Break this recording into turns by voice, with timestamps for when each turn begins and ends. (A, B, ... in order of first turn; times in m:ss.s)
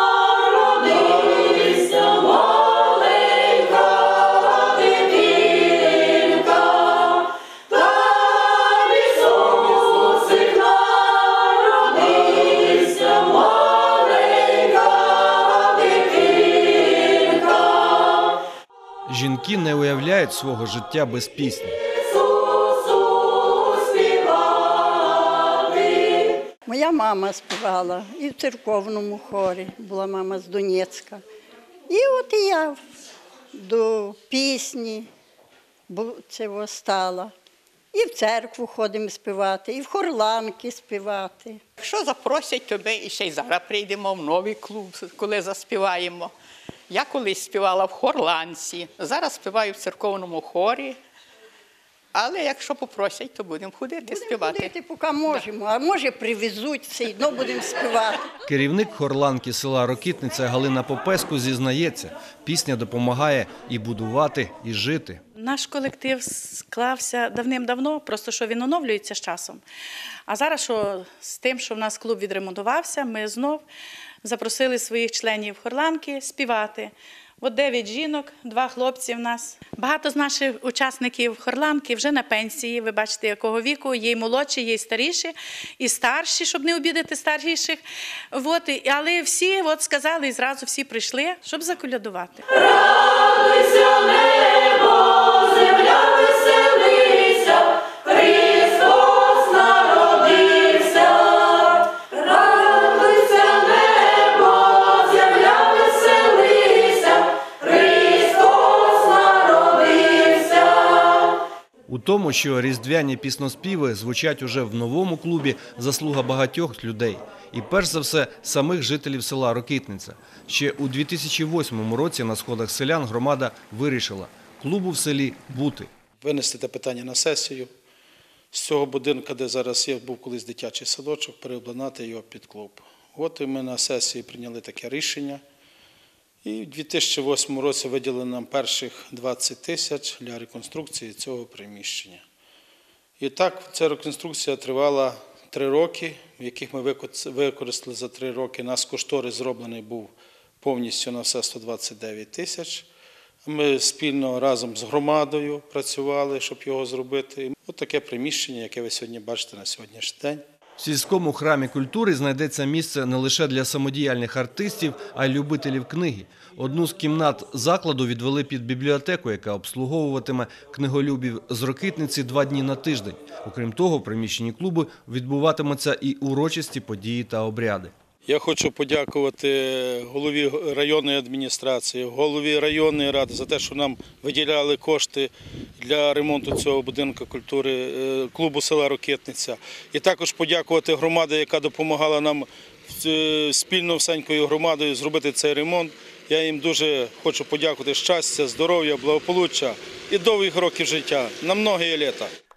0:19.1-0:21.8 A
0:26.6-0:31.2 B
0:31.9-0:32.8 B
0:33.5-0:35.1 B
0:35.9-0:37.3 B
0:37.9-0:41.6 B
0:41.8-0:46.3 C
0:46.9-0:51.0 C
0:52.1-0:54.7 C
0:54.1-0:58.2 B
0:58.5-1:05.2 A
1:05.4-1:09.6 D
1:10.3-1:13.6 D
1:14.2-1:27.8 D
1:28.3-1:32.6 D
1:51.9-2:05.9 A
2:06.2-2:07.7 E
2:08.5-2:15.4 E
2:16.4-2:22.2 E
2:23.2-2:32.9 E
2:33.4-2:40.4 E
2:40.8-2:57.9 A
2:58.2-3:22.3 E